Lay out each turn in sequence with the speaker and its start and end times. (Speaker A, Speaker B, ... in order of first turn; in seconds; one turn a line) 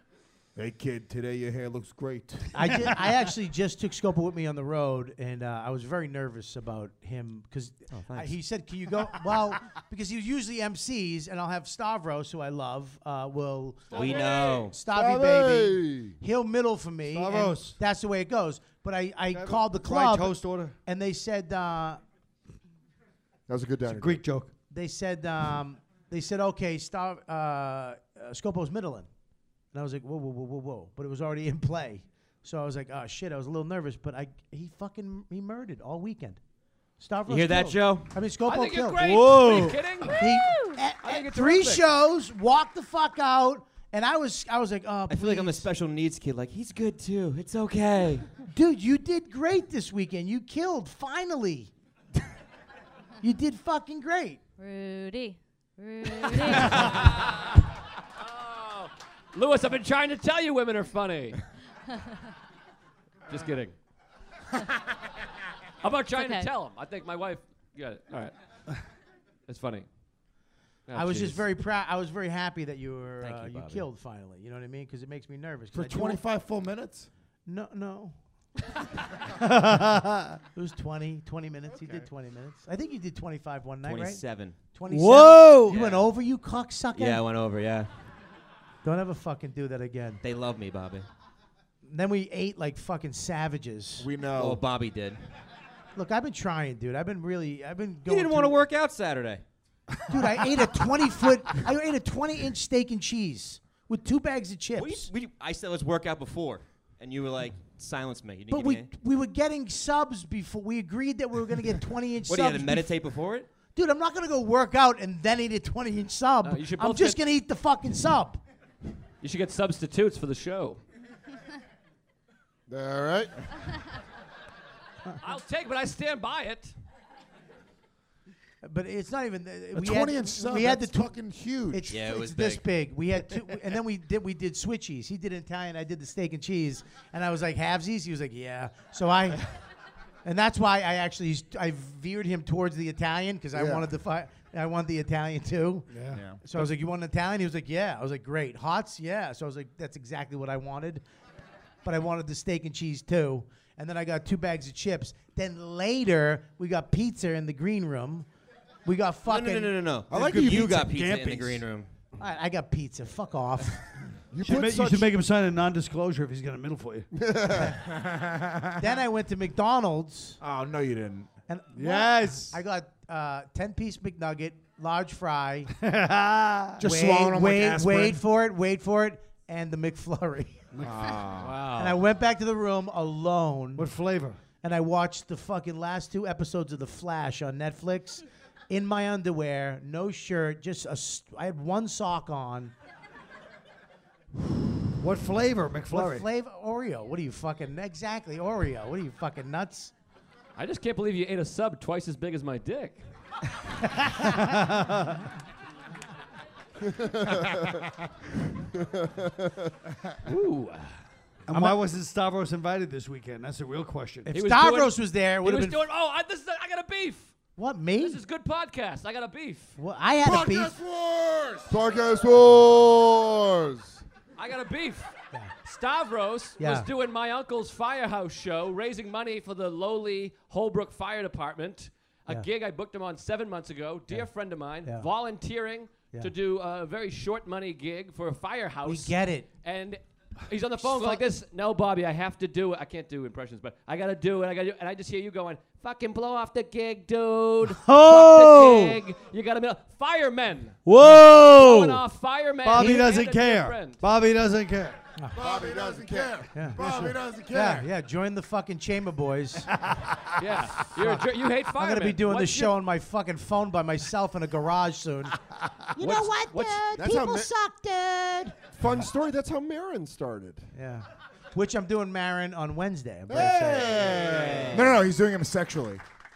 Speaker A: 0.5-2.5
Speaker B: 2.5-22.0
Speaker C: 7.9-8.4
Speaker C: 13.9-14.7
Speaker D: 14.2-16.2
Speaker E: 17.1-17.8
Speaker E: 19.3-20.8
Speaker D: 23.5-24.2
Speaker E: 23.8-24.5
Speaker B: 24.7-29.1
Speaker B: 29.7-36.4
Speaker B: 37.0-45.6
Speaker C: 37.3-38.1
Speaker F: 38.5-40.2
Speaker E: 39.0-39.7
Speaker G: 40.3-40.8
Speaker F: 41.0-41.8
Speaker C: 45.1-48.3
Speaker B: 48.5-51.7
Speaker B: 53.2-54.4
Speaker G: 54.6-57.0
Speaker F: 56.7-57.6
Speaker F: 58.2-61.4
Speaker F: 63.3-63.7
Speaker F: 65.8-68.3
Speaker G: 66.1-66.5
Speaker F: 69.5-69.9
Speaker F: 70.9-71.4
Speaker B: 70.9-76.2
Speaker C: 73.2-73.8
Speaker A: 75.7-77.1
Speaker B: 77.5-78.2
Speaker E: 79.3-80.4
Speaker B: 80.5-87.2
Speaker C: 83.8-84.5
Speaker E: 84.9-85.8
Speaker C: 85.7-86.1
Speaker C: 86.9-87.9
Speaker B: 88.8-90.2
Speaker C: 90.2-91.0
Speaker B: 91.8-94.1
Speaker A: 94.0-94.6
Speaker C: 94.3-95.2
Speaker B: 95.9-98.6
Speaker C: 98.0-99.4
Speaker B: 100.1-105.1
Speaker E: 100.1-100.4
Speaker C: 104.7-108.9
Speaker B: 108.5-112.9
Speaker C: 112.3-113.5
Speaker B: 113.7-118.4
Speaker F: 116.4-117.2
Speaker F: 119.2-120.8
Speaker D: 122.7-123.4
Speaker F: 125.2-126.7
Speaker B: 128.6-131.2
Speaker A: 129.7-132.0
Speaker B: 131.7-139.5
Speaker C: 131.9-132.7
Speaker B: 140.2-151.0
Speaker D: 143.5-143.9
Speaker E: 145.9-146.3
Speaker A: 146.1-146.4
Speaker B: 151.8-158.3
Speaker B: 158.8-159.8
Speaker C: 159.2-161.9
Speaker E: 160.1-161.7
Speaker B: 162.2-163.9
Speaker A: 164.4-164.7
Speaker D: 164.4-164.9
Speaker E: 164.4-167.1
Speaker B: 164.5-165.1
Speaker D: 167.1-167.8
Speaker A: 167.7-168.9
Speaker B: 168.8-170.4
Speaker A: 170.4-171.3
Speaker B: 171.5-175.7
Speaker E: 171.7-172.6
Speaker E: 175.8-176.8
Speaker A: 176.8-178.2
Speaker B: 176.8-180.6
Speaker E: 180.7-181.1
Speaker A: 180.8-181.6
Speaker F: 181.4-182.0
Speaker B: 181.8-183.9
Speaker E: 183.8-184.4
Speaker B: 184.6-192.7
Speaker E: 195.0-196.2
Speaker B: 195.9-199.9
Speaker F: 200.6-203.0
Speaker E: 204.0-205.3
Speaker D: 206.8-207.8
Speaker A: 207.3-207.7
Speaker D: 208.7-209.7
Speaker F: 210.2-211.0
Speaker E: 211.5-214.3
Speaker B: 211.5-211.8
Speaker B: 214.3-215.8
Speaker F: 214.3-217.3
Speaker B: 217.6-218.2
Speaker F: 218.0-219.7
Speaker B: 219.8-220.7
Speaker A: 220.2-221.7
Speaker D: 221.7-224.0
Speaker F: 224.3-225.1
Speaker F: 225.6-250.8
Speaker B: 226.6-226.9
Speaker B: 238.8-239.5
Speaker B: 240.8-241.2
Speaker E: 247.8-249.0
Speaker E: 250.8-252.0
Speaker F: 251.3-254.0
Speaker E: 252.6-255.0
Speaker B: 252.8-253.1
Speaker A: 255.3-257.9
Speaker D: 255.3-256.4
Speaker B: 256.5-259.8
Speaker E: 259.8-260.1
Speaker F: 260.4-262.8
Speaker B: 261.7-265.4
Speaker B: 265.9-268.5
Speaker F: 266.0-266.8
Speaker D: 266.9-267.5
Speaker D: 268.7-270.7
Speaker B: 270.7-274.3
Speaker D: 273.3-274.9
Speaker A: 273.4-273.8
Speaker C: 273.9-274.9
Speaker A: 274.7-276.0